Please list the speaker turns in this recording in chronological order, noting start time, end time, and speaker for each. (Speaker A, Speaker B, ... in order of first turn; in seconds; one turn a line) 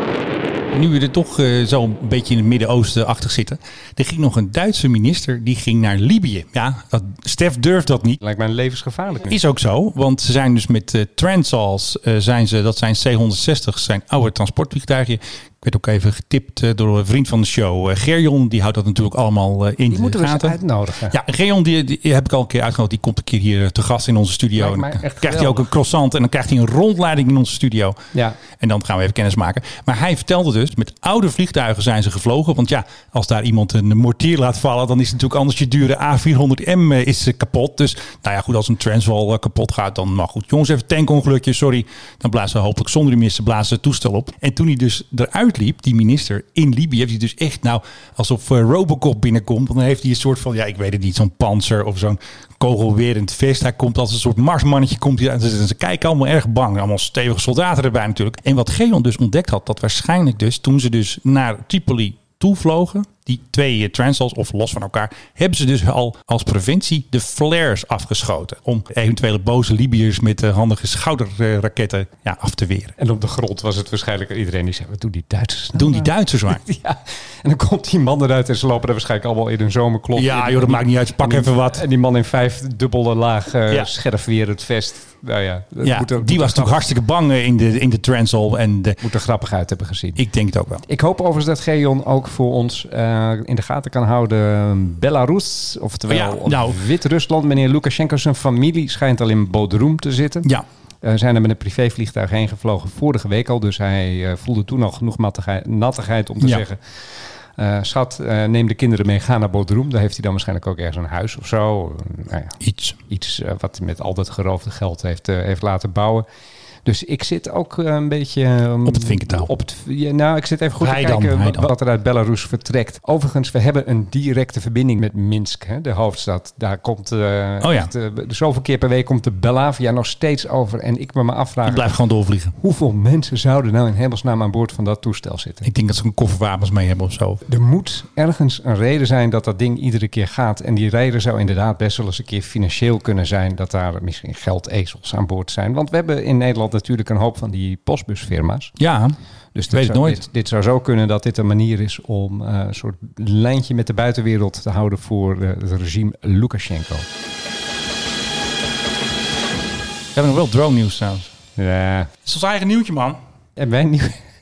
Speaker A: 0.7-8.2
Speaker B: 8.2-9.4
Speaker A: 9.2-20.6
Speaker B: 19.9-21.2
Speaker A: 21.1-28.0
Speaker B: 24.6-25.7
Speaker A: 28.5-72.9
Speaker B: 73.0-86.8
Speaker A: 75.7-76.6
Speaker A: 80.1-81.8
Speaker A: 85.8-89.0
Speaker B: 89.0-90.2
Speaker A: 90.2-90.8
Speaker B: 90.8-100.5
Speaker A: 96.1-96.8
Speaker B: 101.0-106.8
Speaker B: 107.5-112.6
Speaker A: 112.6-113.0
Speaker B: 113.1-116.2
Speaker B: 116.8-131.9
Speaker A: 118.8-119.5
Speaker A: 120.8-121.7
Speaker A: 127.6-127.9
Speaker A: 131.6-132.5
Speaker B: 132.6-135.7
Speaker A: 135.6-137.4
Speaker B: 137.4-148.7
Speaker A: 148.8-149.1
Speaker B: 149.5-157.1
Speaker A: 149.7-150.2
Speaker A: 160.1-161.3
Speaker B: 161.6-162.1
Speaker A: 162.2-163.2
Speaker B: 163.6-164.2